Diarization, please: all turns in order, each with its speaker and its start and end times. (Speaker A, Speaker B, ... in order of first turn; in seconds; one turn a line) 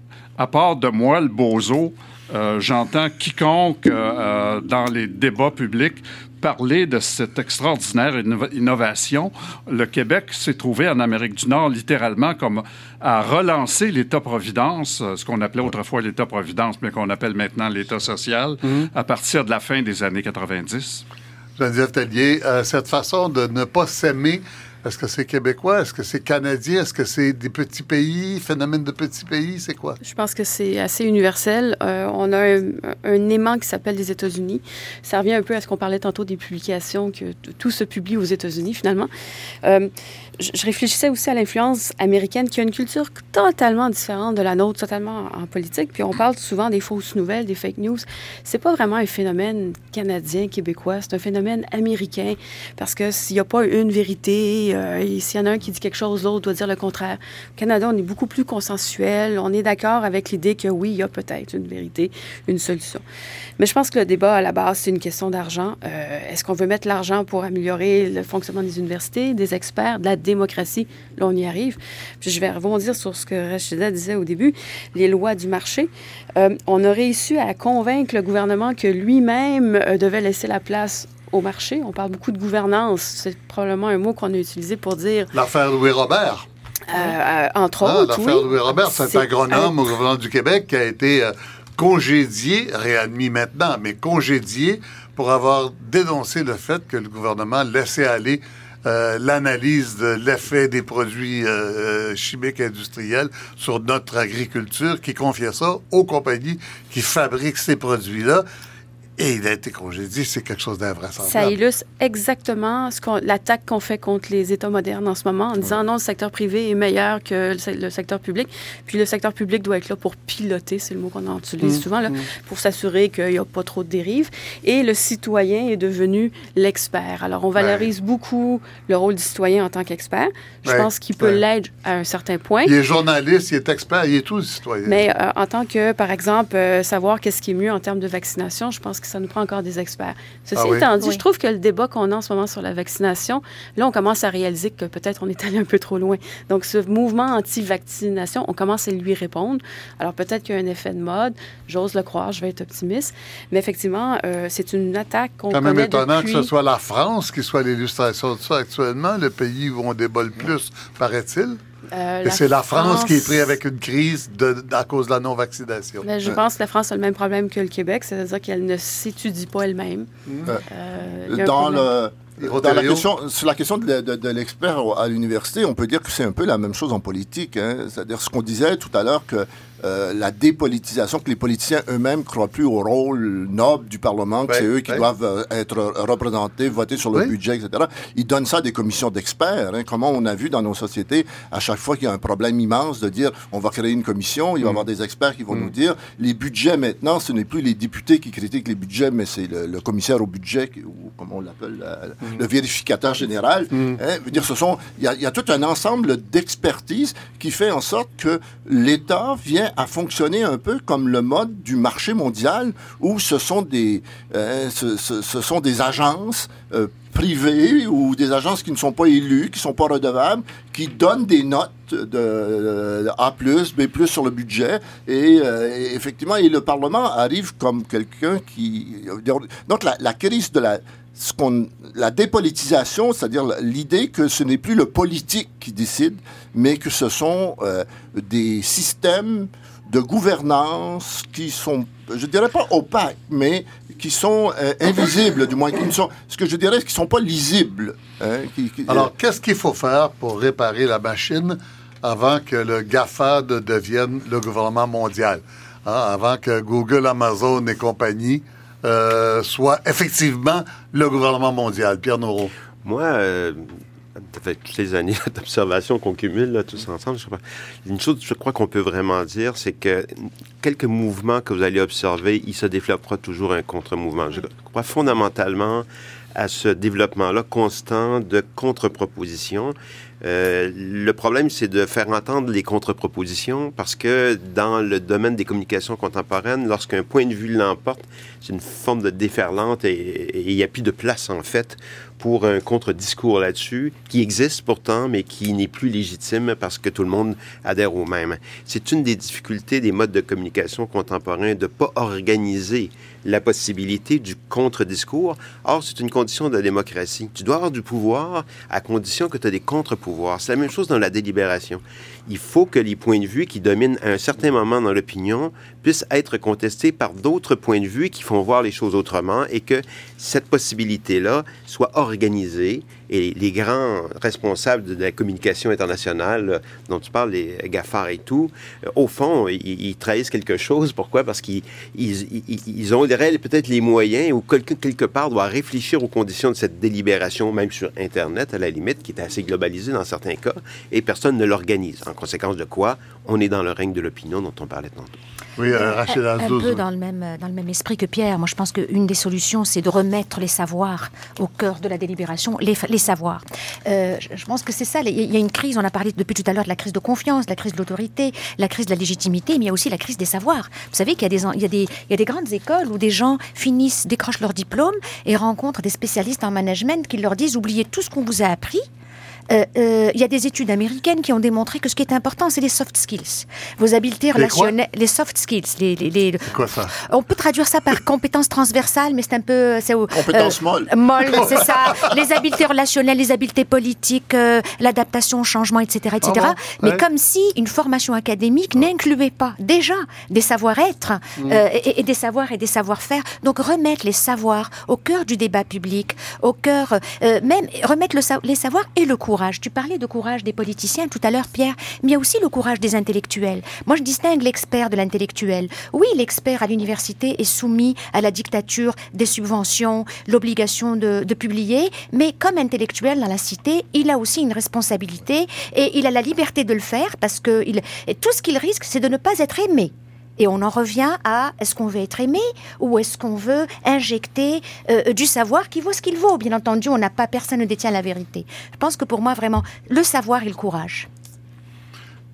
Speaker A: 0.4-21.0
Speaker B: 21.6-30.0
Speaker C: 30.0-39.1
Speaker C: 39.6-63.0
Speaker C: 63.6-85.3
Speaker B: 85.3-86.5
Speaker C: 86.9-89.8
Speaker B: 87.8-108.5
Speaker B: 109.2-111.5
Speaker C: 111.2-132.7
Speaker B: 121.6-122.2
Speaker B: 127.6-127.9
Speaker B: 130.7-131.4
Speaker B: 132.6-135.0
Speaker C: 134.8-156.5
Speaker B: 140.6-140.9
Speaker B: 155.5-161.6
Speaker C: 161.9-163.5
Speaker B: 162.2-166.1
Speaker C: 166.0-170.1
Speaker B: 170.3-170.6
Speaker C: 170.7-171.9
Speaker D: 171.3-249.1
Speaker B: 172.4-173.1
Speaker B: 184.5-185.0
Speaker B: 203.7-204.0
Speaker B: 248.9-262.5
Speaker E: 262.8-345.2
Speaker B: 345.6-346.8
Speaker F: 345.9-368.9
Speaker F: 369.5-431.1
Speaker B: 374.4-374.7
Speaker B: 376.5-376.9
Speaker D: 380.1-381.6
Speaker B: 386.2-387.0
Speaker B: 391.4-391.6